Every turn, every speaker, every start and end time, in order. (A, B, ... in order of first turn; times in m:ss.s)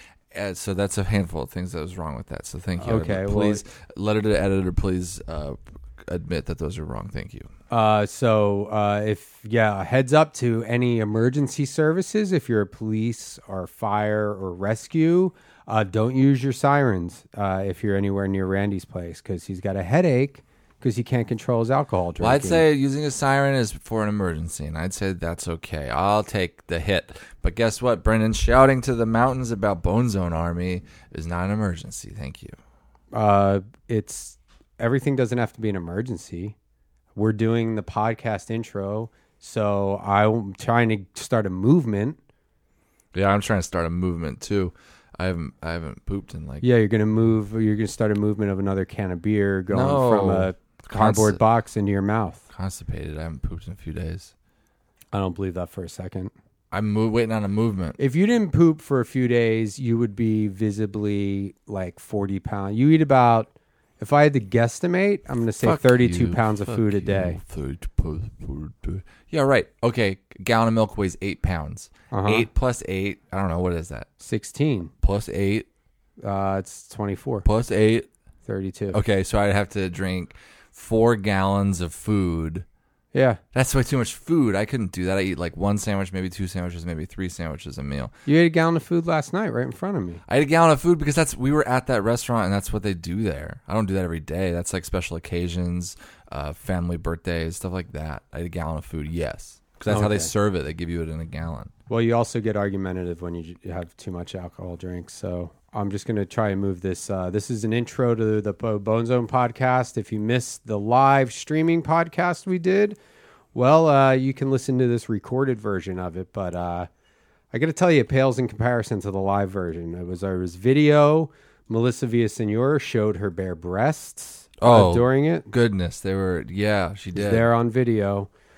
0:00.3-0:07.5 A
0:02.8-0:03.6 B
0:07.7-0:22.6 B
0:22.2-0:32.6 A
0:33.1-0:36.6 B
0:37.1-0:42.2 B
0:43.1-0:46.7 A
0:46.6-0:52.4 B
0:49.7-0:51.4 A
0:52.5-0:54.3 A
0:55.1-0:56.3 B
0:56.7-0:58.0 A
0:58.0-1:07.4 B
1:05.6-1:14.1 A
1:12.1-1:12.5 B
1:14.2-1:14.9 B
1:15.0-1:15.7 A
1:16.2-1:17.4 B
1:17.4-1:18.1 A
1:18.4-1:19.0 B
1:18.9-1:22.6 A
1:23.1-1:23.4 B
1:23.5-1:28.1 A
1:28.2-1:30.2 B
1:30.3-1:41.7 A
1:39.9-1:40.3 B
1:41.9-1:53.0 B
1:53.5-1:56.9 B
1:57.5-2:05.5 B
2:04.6-2:07.5 A
2:07.1-2:08.3 B